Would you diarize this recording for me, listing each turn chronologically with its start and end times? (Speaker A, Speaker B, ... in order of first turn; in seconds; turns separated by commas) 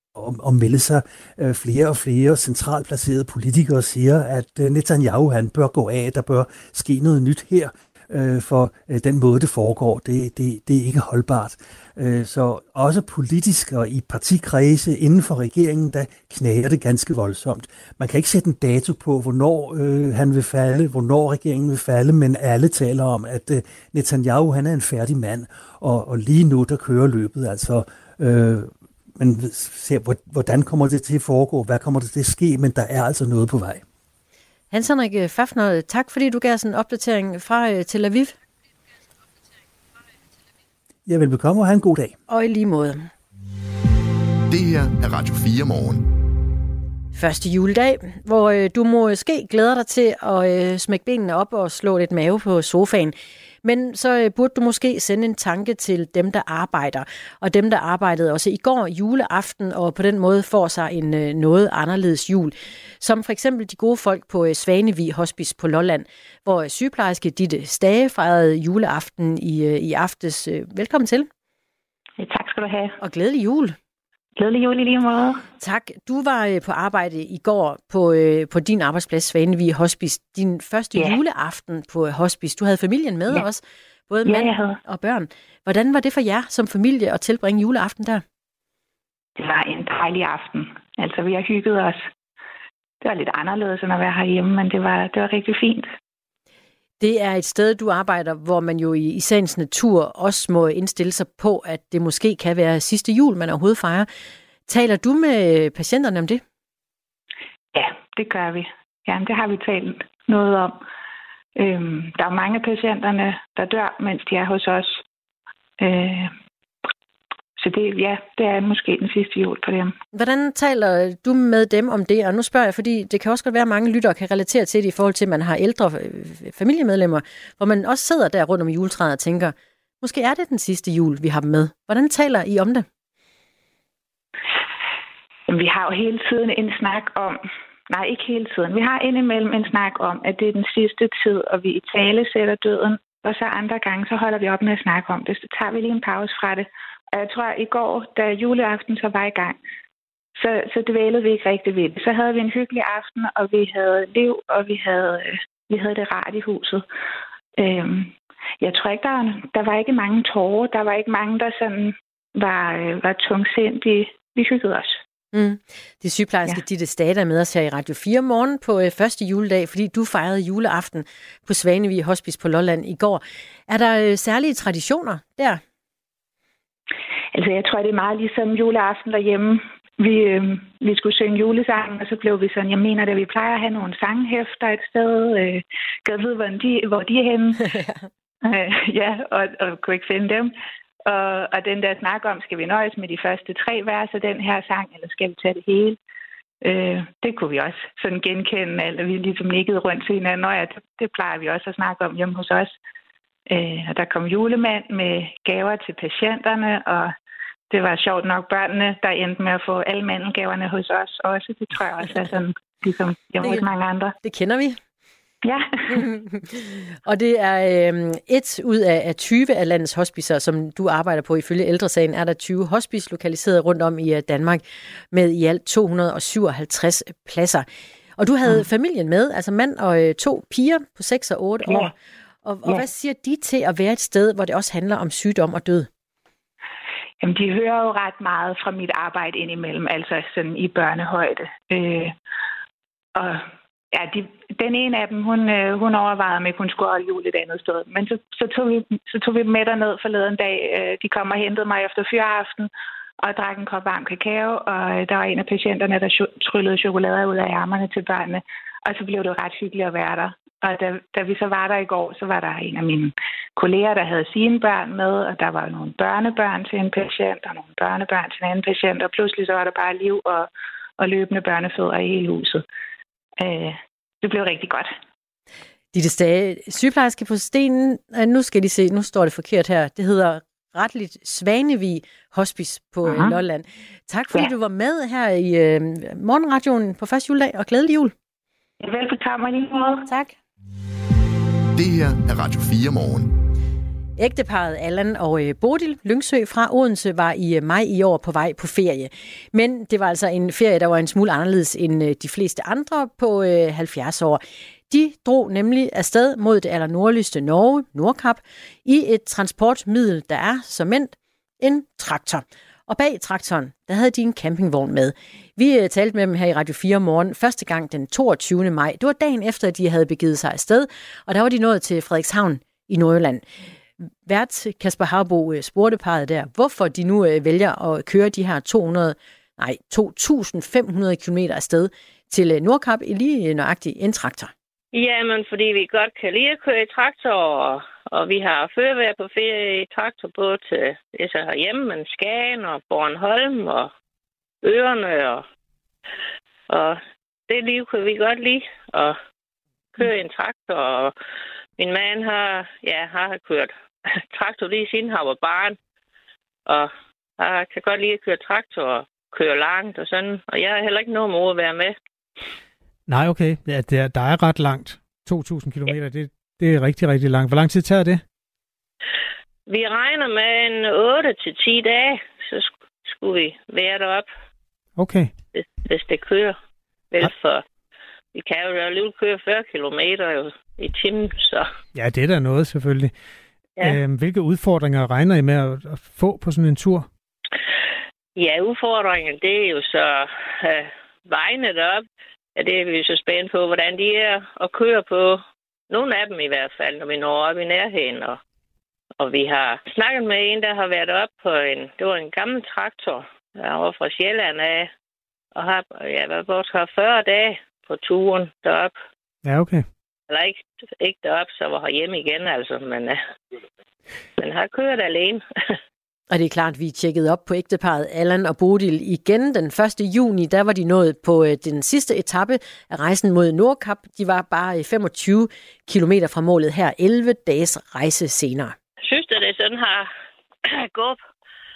Speaker A: 0.1-33.8, Speaker B: 34.7-38.3, Speaker A: 41.1-42.1, Speaker B: 42.3-43.1, Speaker C: 44.5-46.1, Speaker B: 47.1-71.3, Speaker D: 72.2-73.0, Speaker B: 73.0-73.8, Speaker D: 74.4-75.4, Speaker B: 75.6-88.2, Speaker D: 84.2-84.8, Speaker D: 89.4-92.0, Speaker D: 93.0-95.9, Speaker B: 97.0-104.1, Speaker B: 104.7-106.4, Speaker D: 107.7-110.8, Speaker D: 111.6-115.0, Speaker D: 115.8-116.3, Speaker D: 117.6-119.9, Speaker B: 120.1-132.8, Speaker D: 135.5-137.4, Speaker D: 137.9-149.6, Speaker D: 150.3-156.8, Speaker D: 157.6-165.0, Speaker B: 165.3-175.6, Speaker D: 177.3-187.7, Speaker D: 188.4-190.5, Speaker D: 191.1-196.0, Speaker D: 196.6-202.8, Speaker D: 203.5-207.1, Speaker D: 207.7-214.1, Speaker B: 213.4-213.7, Speaker B: 214.2-214.8, Speaker D: 215.4-216.0, Speaker B: 215.9-227.6, Speaker B: 228.2-235.9, Speaker D: 237.2-242.1, Speaker D: 243.1-252.7, Speaker D: 253.2-272.6, Speaker D: 273.4-274.9, Speaker B: 275.9-288.1, Speaker D: 283.0-283.3, Speaker D: 288.8-290.1, Speaker B: 290.1-290.3, Speaker C: 291.7-293.3, Speaker B: 294.2-323.4, Speaker B: 324.2-334.5, Speaker E: 334.9-343.9, Speaker E: 344.6-345.4, Speaker E: 346.7-349.2, Speaker E: 349.9-351.1, Speaker E: 351.8-355.8, Speaker E: 356.6-361.9, Speaker F: 363.1-368.2, Speaker E: 369.7-374.3, Speaker F: 375.0-375.3, Speaker E: 375.5-376.6, Speaker E: 377.1-377.6, Speaker E: 378.3-381.7, Speaker F: 381.9-383.1, Speaker F: 383.8-387.1, Speaker E: 388.4-392.0, Speaker E: 392.6-398.4, Speaker E: 399.2-404.9, Speaker E: 405.6-408.9, Speaker F: 409.4-409.9, Speaker E: 410.3-413.2, Speaker E: 414.4-415.4, Speaker B: 416.3-428.7, Speaker E: 429.0-430.1, Speaker E: 430.6-431.2